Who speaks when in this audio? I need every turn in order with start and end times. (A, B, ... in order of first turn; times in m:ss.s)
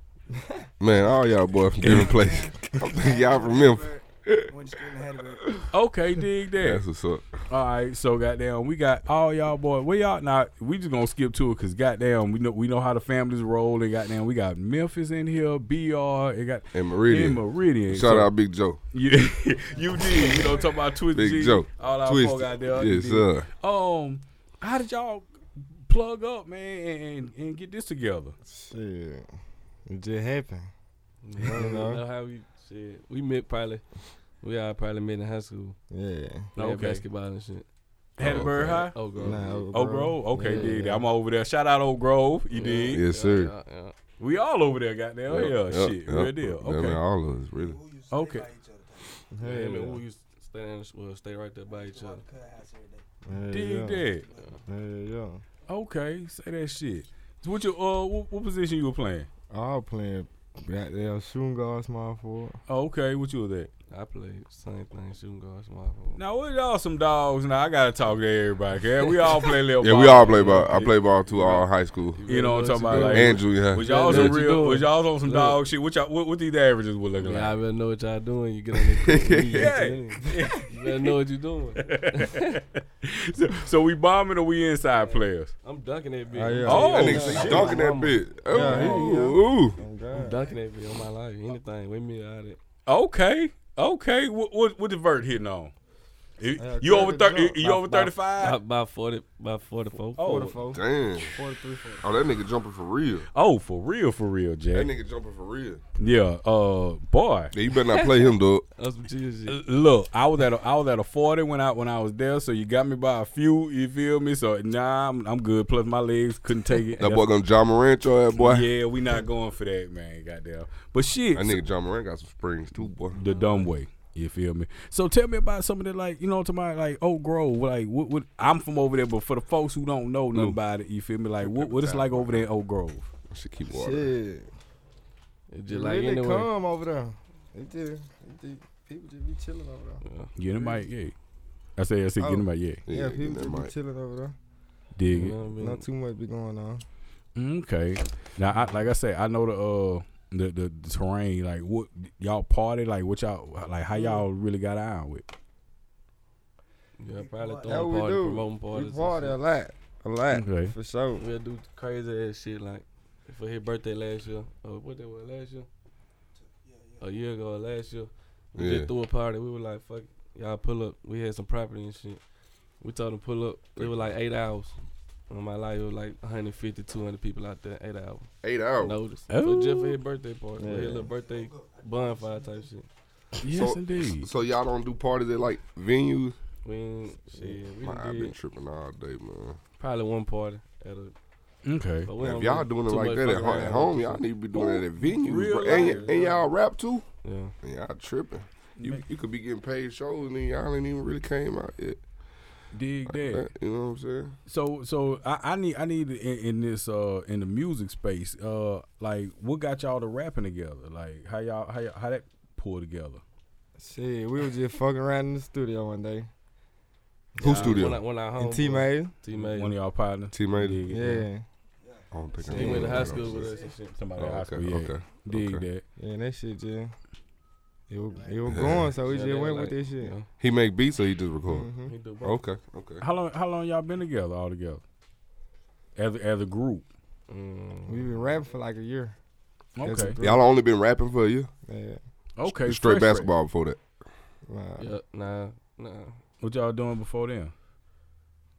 0:00.8-0:05.6 A
0:01.8-0:02.2 B
0:03.0-0:04.0 C
0:04.5-0:05.4 C
0:05.7-0:06.8 B
0:06.6-0:07.4 A
0:07.5-0:18.3 B
0:16.7-0:18.8 A
0:18.9-0:28.4 B
0:21.1-0:23.5 A
0:28.4-0:29.3 D
0:29.9-0:30.7 D
0:31.2-0:33.9 E
0:31.4-0:32.0 D
0:34.4-0:35.8 E
0:35.9-0:36.5 D
0:36.6-0:37.7 E
0:36.6-0:37.0 B
0:38.2-0:38.9 A
0:38.2-0:39.0 B
0:38.2-0:39.7 E
0:39.2-0:41.1 D
0:39.7-0:43.0 B
0:40.4-0:40.8 E
0:42.5-0:43.9 E
0:42.8-0:43.5 A
0:44.2-0:47.0 B
0:45.3-0:47.8 A
0:47.9-0:49.0 C
0:48.1-0:48.5 B
0:49.3-0:50.0 D
0:49.4-0:52.3 E
0:52.2-0:53.0 C
0:53.2-0:54.1 D
0:53.5-0:54.3 B
0:54.6-0:55.4 D
0:55.7-0:59.3 B
0:59.5-1:02.6 D
1:02.7-1:03.7 B
1:03.9-1:06.2 E
1:06.1-1:11.7 B
1:09.1-1:09.5 E
1:09.8-1:12.2 A
1:10.3-1:10.7 E
1:12.1-1:15.6 E
1:12.3-1:17.6 B
1:13.0-1:14.4 A
1:17.2-1:22.6 E
1:19.0-1:19.7 A
1:19.5-1:21.1 B
1:21.8-1:25.5 B
1:25.0-1:29.2 E
1:26.3-1:30.5 D
1:26.6-1:27.8 B
1:26.8-1:29.8 A
1:30.1-1:32.6 E
1:32.8-1:35.7 B
1:36.4-1:38.6 B
1:36.6-1:37.6 D
1:37.6-1:40.3 E
1:40.2-1:40.6 B
1:40.2-1:42.0 D
1:40.7-1:41.4 A
1:42.0-1:43.3 A
1:43.3-1:44.9 B
1:44.7-1:45.8 A
1:46.0-1:47.5 B
1:47.5-1:48.6 A
1:47.8-1:48.2 E
1:48.8-1:49.6 E
1:49.5-1:57.2 B
1:57.0-1:58.7 A
1:58.3-2:01.6 B
2:01.3-2:03.2 A
2:02.8-2:13.1 B
2:11.4-2:12.4 A
2:13.3-2:14.1 A
2:13.6-2:14.5 D
2:15.5-2:16.5 E
2:15.7-2:20.0 D
2:20.0-2:20.8 E
2:20.4-2:21.1 B
2:21.8-2:22.8 B
2:22.2-2:24.4 D
2:22.9-2:23.7 A
2:25.0-2:25.4 B
2:25.0-2:25.8 E
2:25.5-2:26.8 D
2:27.4-2:35.2 B
2:34.0-2:34.2 D
2:37.0-2:39.4 E
2:37.6-2:41.2 D
2:40.3-2:40.7 B
2:41.2-2:45.7 E
2:47.0-2:52.2 E
2:48.6-2:48.9 A
2:52.8-2:54.8 E
2:53.8-2:54.1 A
2:55.3-2:58.3 E
2:58.4-2:59.0 A
2:58.8-3:02.9 E
2:59.3-3:00.0 B
3:00.6-3:01.1 D
3:03.4-3:04.3 B
3:03.5-3:06.4 A
3:06.6-3:08.3 E
3:07.7-3:09.6 A
3:09.8-3:11.1 E
3:11.6-3:12.1 B
3:12.0-3:14.3 E
3:12.2-3:17.0 A
3:14.5-3:16.4 B
3:15.8-3:16.2 D
3:17.2-3:17.5 E
3:17.6-3:22.0 A
3:18.8-3:19.0 B
3:22.7-3:23.5 B
3:23.1-3:24.4 A
3:24.5-3:33.2 B
3:33.8-3:36.3 D
3:37.3-3:39.1 D
3:37.4-3:38.0 A
3:37.4-3:39.8 E
3:39.3-3:41.3 B
3:40.3-3:40.8 A
3:40.9-3:41.4 D
3:42.1-3:43.5 A
3:42.4-3:43.8 E
3:42.5-3:42.8 D
3:43.4-3:45.8 B
3:44.2-3:45.6 A
3:46.0-3:46.9 D
3:47.9-3:50.2 D
3:48.4-3:49.0 A
3:49.0-3:50.3 E
3:50.4-3:53.0 A
3:51.4-3:51.9 D
3:51.8-3:52.4 E
3:53.0-3:54.8 B
3:56.0-3:56.8 B
3:57.3-3:58.2 E
3:57.8-3:59.2 D
3:59.8-4:00.2 B
3:59.8-4:00.5 D
4:00.2-4:01.5 A
4:01.6-4:02.0 D
4:02.4-4:03.3 B
4:02.4-4:03.8 A
4:04.5-4:04.9 D
4:04.8-4:06.2 E
4:06.4-4:07.5 B